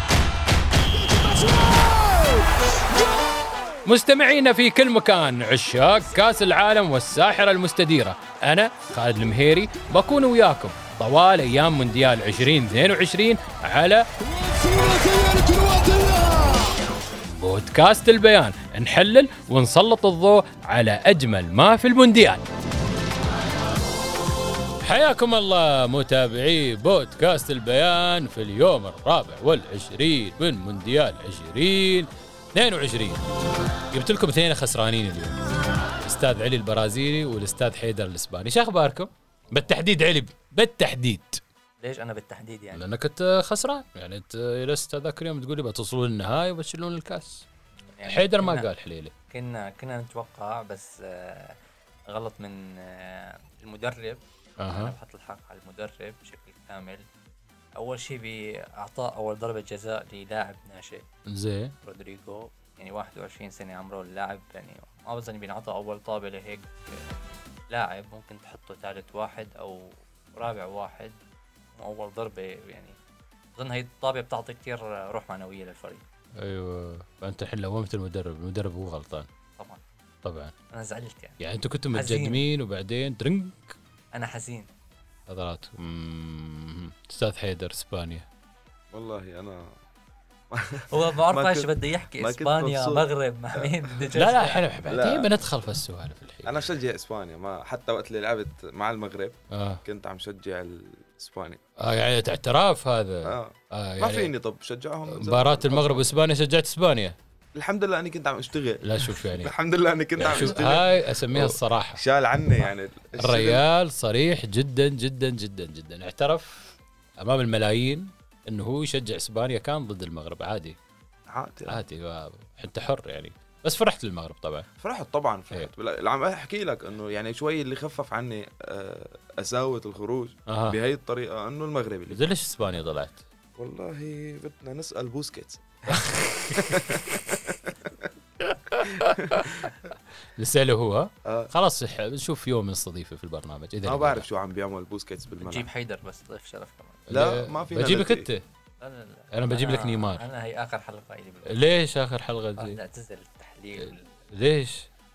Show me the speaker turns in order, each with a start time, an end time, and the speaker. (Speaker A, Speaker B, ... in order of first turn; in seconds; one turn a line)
Speaker A: 3.8-14.1
Speaker A: 14.7-16.6
Speaker A: 17.3-22.4
Speaker A: 24.8-33.2
Speaker A: 33.9-35.4
Speaker A: 36.0-41.4
Speaker B: 41.8-42.8
Speaker A: 42.7-47.4
Speaker B: 47.8-48.7
Speaker A: 48.1-49.1
Speaker B: 49.3-51.5
Speaker B: 52.1-57.0
Speaker A: 54.6-54.9
Speaker B: 57.8-61.0
Speaker A: 61.3-61.7
Speaker B: 61.8-67.2
Speaker B: 67.7-71.2
Speaker B: 71.7-73.0
Speaker B: 73.5-76.0
Speaker A: 76.4-79.3
Speaker A: 80.2-80.5
Speaker B: 80.7-82.4
Speaker A: 81.4-83.7
Speaker B: 84.1-84.7
Speaker A: 85.3-88.2
Speaker C: 88.9-89.7
Speaker C: 90.5-94.1
Speaker B: 90.9-94.6
Speaker A: 94.1-96.7
Speaker C: 94.9-95.3
Speaker C: 96.4-101.6
Speaker A: 99.5-99.8
Speaker A: 101.8-104.3
Speaker C: 103.2-106.2
Speaker A: 105.1-107.2
Speaker C: 107.5-113.6
Speaker A: 108.8-109.5
Speaker A: 110.2-112.0
Speaker A: 113.2-120.8
Speaker C: 121.3-121.8
Speaker A: 121.7-124.7
Speaker C: 124.8-132.2
Speaker A: 130.5-130.8
Speaker A: 132.1-133.2
Speaker C: 133.6-138.1
Speaker A: 135.9-136.8
Speaker A: 138.4-139.7
Speaker C: 139.0-139.7
Speaker A: 140.3-144.2
Speaker C: 141.2-141.5
Speaker C: 143.8-145.7
Speaker B: 145.4-147.1
Speaker A: 147.1-148.4
Speaker C: 147.1-148.3
Speaker B: 148.8-151.7
Speaker A: 149.3-150.2
Speaker A: 151.5-152.8
Speaker B: 152.6-154.1
Speaker A: 153.8-154.9